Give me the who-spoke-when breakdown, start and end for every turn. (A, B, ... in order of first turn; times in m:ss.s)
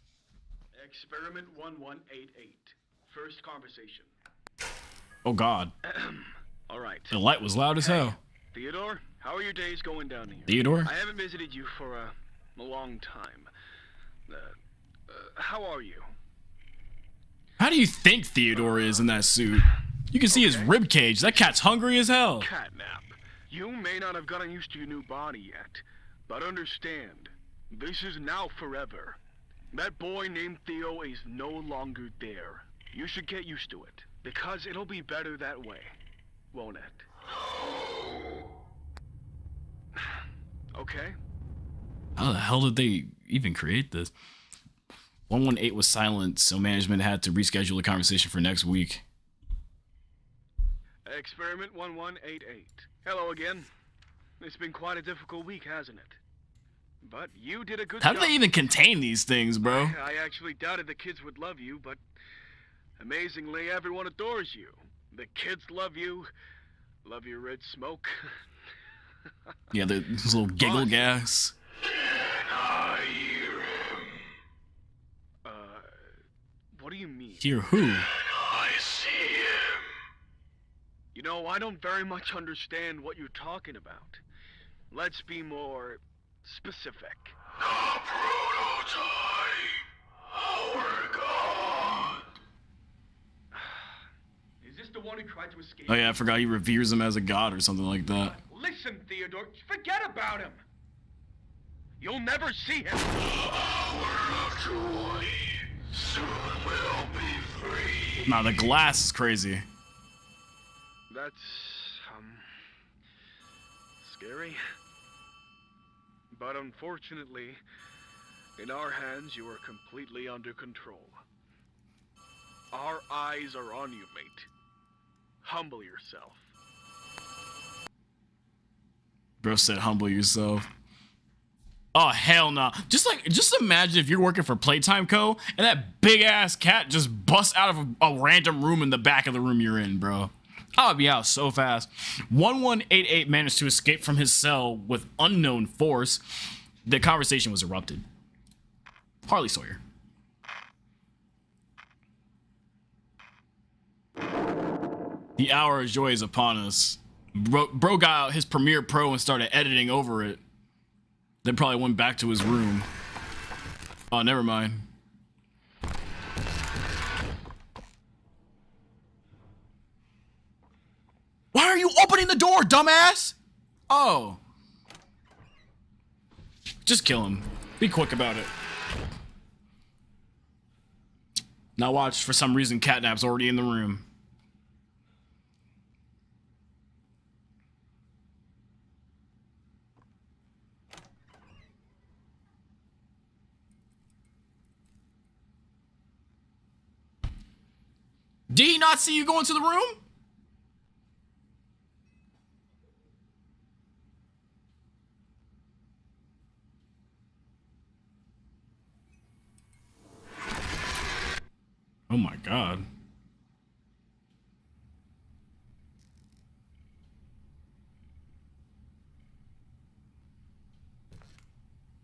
0:00.7-0:04.1 A
0:05.2-0:05.7 B
0:05.8-0:07.2 A
0:07.1-0:08.2 B
0:07.8-0:13.5 A
0:10.5-0:10.9 B
0:14.3-0:14.6 A
0:15.1-0:16.1 A
0:17.6-0:22.5 B
0:20.3-0:20.7 A
0:22.4-0:29.2 A
0:29.7-0:36.0 A
0:36.5-0:37.0 A
0:40.8-0:41.1 A
0:42.2-0:44.1 B
0:45.3-0:49.0 B
0:51.1-0:53.7 A
0:54.4-0:56.2 A
0:57.0-0:58.7 A
0:58.0-0:59.9 B
0:59.6-1:02.0 A
1:03.0-1:06.3 A
1:07.0-1:08.2 A
1:09.7-1:11.5 B
1:10.6-1:11.1 A
1:12.6-1:13.2 A
1:15.4-1:15.9 A
1:16.7-1:17.5 A
1:17.4-1:18.1 B
1:18.8-1:19.3 A
1:21.1-1:24.2 A
1:24.9-1:27.4 A
1:28.6-1:29.0 A
1:30.7-1:31.8 A
1:33.5-1:34.0 A
1:34.6-1:36.2 A
1:35.9-1:38.3 B
1:38.2-1:40.6 A
1:42.0-1:45.6 A
1:46.3-1:48.0 A
1:48.2-1:49.6 B
1:51.1-1:52.5 A
1:54.0-1:54.6 A
1:56.3-1:57.6 A
1:58.6-2:01.2 A
2:02.7-2:04.5 A
2:05.4-2:06.4 A
2:09.4-2:10.7 B
2:11.9-2:28.0 B
2:29.2-2:29.8 B
2:35.4-2:40.4 B
2:41.4-2:42.9 B
2:44.1-2:44.8 B
2:51.5-2:53.4 B
2:53.9-2:54.4 B
2:56.8-2:58.5 B
3:01.8-3:04.0 B
3:18.5-3:20.0 B
3:32.1-3:32.8 B